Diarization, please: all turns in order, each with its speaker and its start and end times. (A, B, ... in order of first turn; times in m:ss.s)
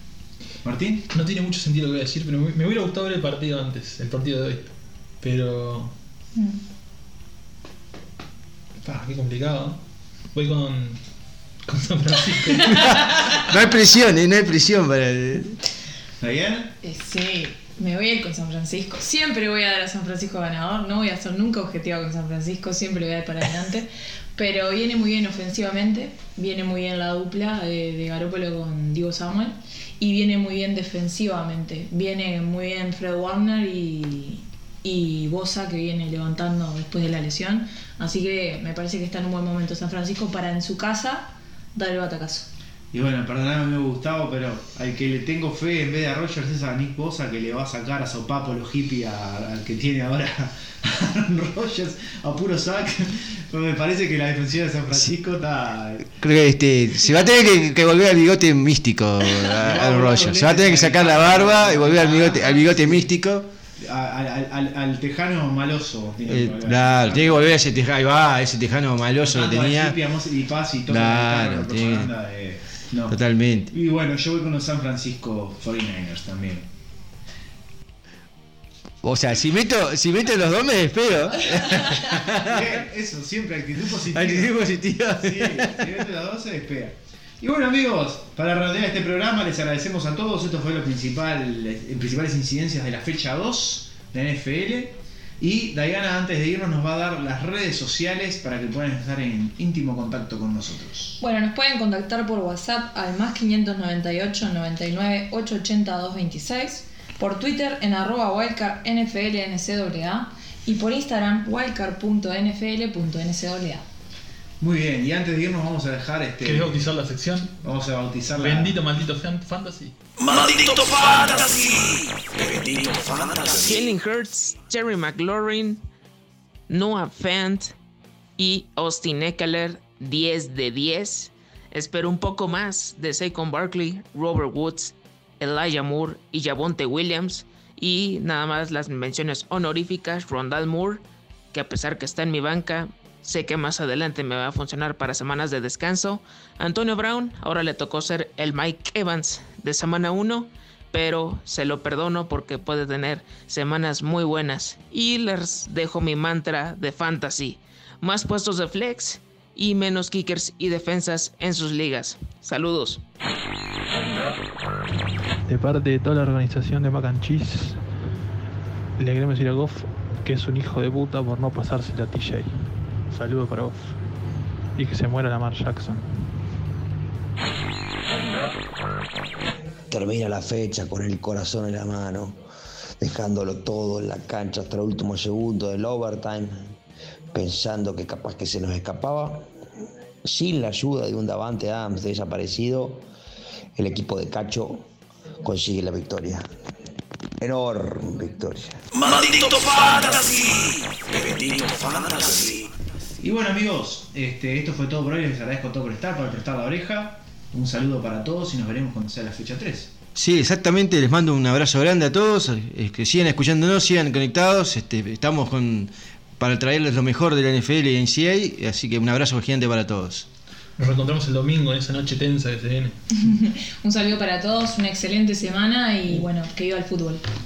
0:00.6-0:01.1 A
0:01.1-0:04.7 B
0:05.2-0:05.9 B
0:08.8-0:09.8 B
0:10.3-0:11.0 B
0:11.7-0:13.2 B
0:12.7-0:15.6 C
0:16.2-0:16.7 A
0:16.8-0:42.5 D
0:42.9-0:56.1 A
0:56.2-1:03.5 C
0:59.5-1:03.1 A
1:03.8-1:07.6 A
1:06.3-1:10.0 C
1:09.2-1:13.2 A
1:10.9-1:12.1 C
1:13.1-1:13.7 C
1:13.7-1:16.6 A
1:19.0-1:22.7 C
1:22.2-1:41.2 A
1:24.1-1:26.0 C
1:41.2-1:53.8 D
1:54.6-1:56.9 A
1:56.4-1:57.5 B
1:57.6-1:58.8 A
1:58.4-2:00.0 B
2:00.5-2:01.8 E
2:01.5-2:02.0 F
2:02.9-2:05.8 E
2:06.7-2:07.7 E
2:08.4-2:43.0 E
2:45.5-2:47.8 B
2:49.0-2:52.6 B
2:53.1-2:54.0 B
2:54.8-2:56.1 B
2:59.9-3:02.4 G
3:03.0-3:06.8 G
3:07.3-3:09.5 G
3:10.2-3:13.0 G
3:13.8-3:14.9 G
3:15.4-3:16.5 G
3:17.4-3:18.8 G
3:19.3-3:20.7 F
3:21.2-3:22.5 G
3:23.2-3:29.9 A
3:30.2-3:40.3 C
3:40.8-3:43.0 B
3:43.2-3:47.2 D